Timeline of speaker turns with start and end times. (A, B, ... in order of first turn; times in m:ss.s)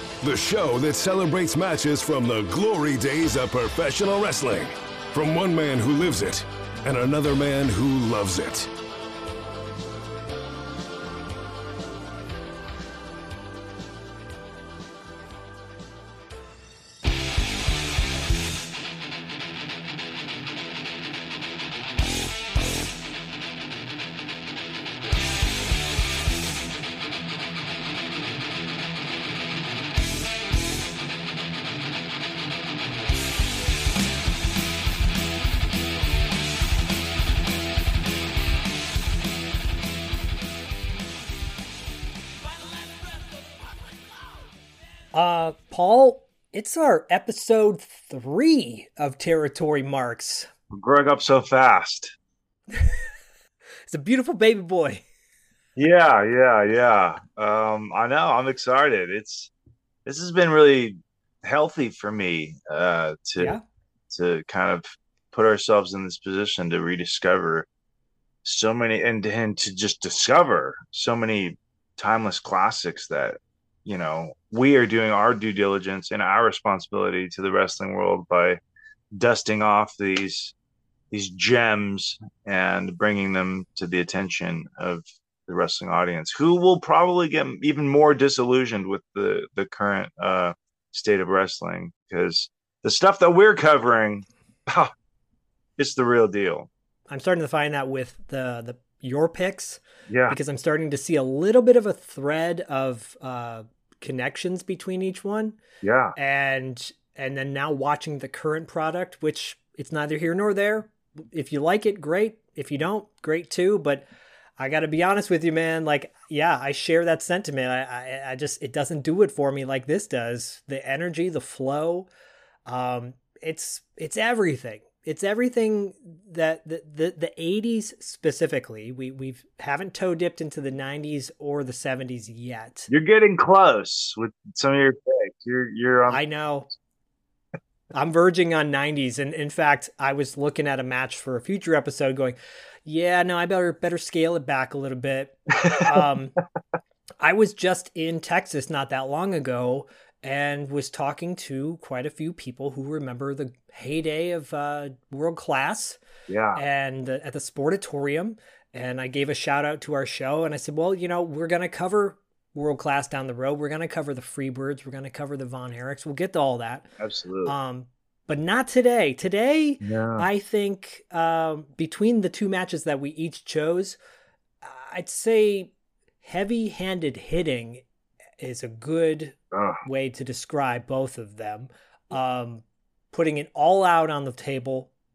0:00.2-0:08.7 A
0:45.1-0:50.5 B
0:50.7-0:52.2 C
0:53.9-0:55.0 B
0:55.8-0:59.5 C
1:00.0-1:03.6 C
1:04.1-1:07.7 C
1:08.4-1:18.6 C
1:19.1-1:20.5 C
1:21.1-1:34.9 C
1:35.8-1:36.7 C
1:37.1-1:45.6 B
1:40.1-1:40.4 C
1:45.8-1:46.2 C
1:46.2-2:02.1 B
2:02.7-2:12.9 B
2:12.9-2:16.2 C
2:16.1-2:16.7 B
2:17.9-2:26.4 B
2:25.7-2:26.0 C
2:27.2-2:36.0 B
2:36.3-2:36.6 C
2:36.6-2:46.9 B
2:47.0-2:47.6 C
2:47.4-2:54.0 B
2:49.8-2:50.3 C
2:54.6-2:57.8 B
2:58.4-3:04.9 B
2:59.5-2:59.8 C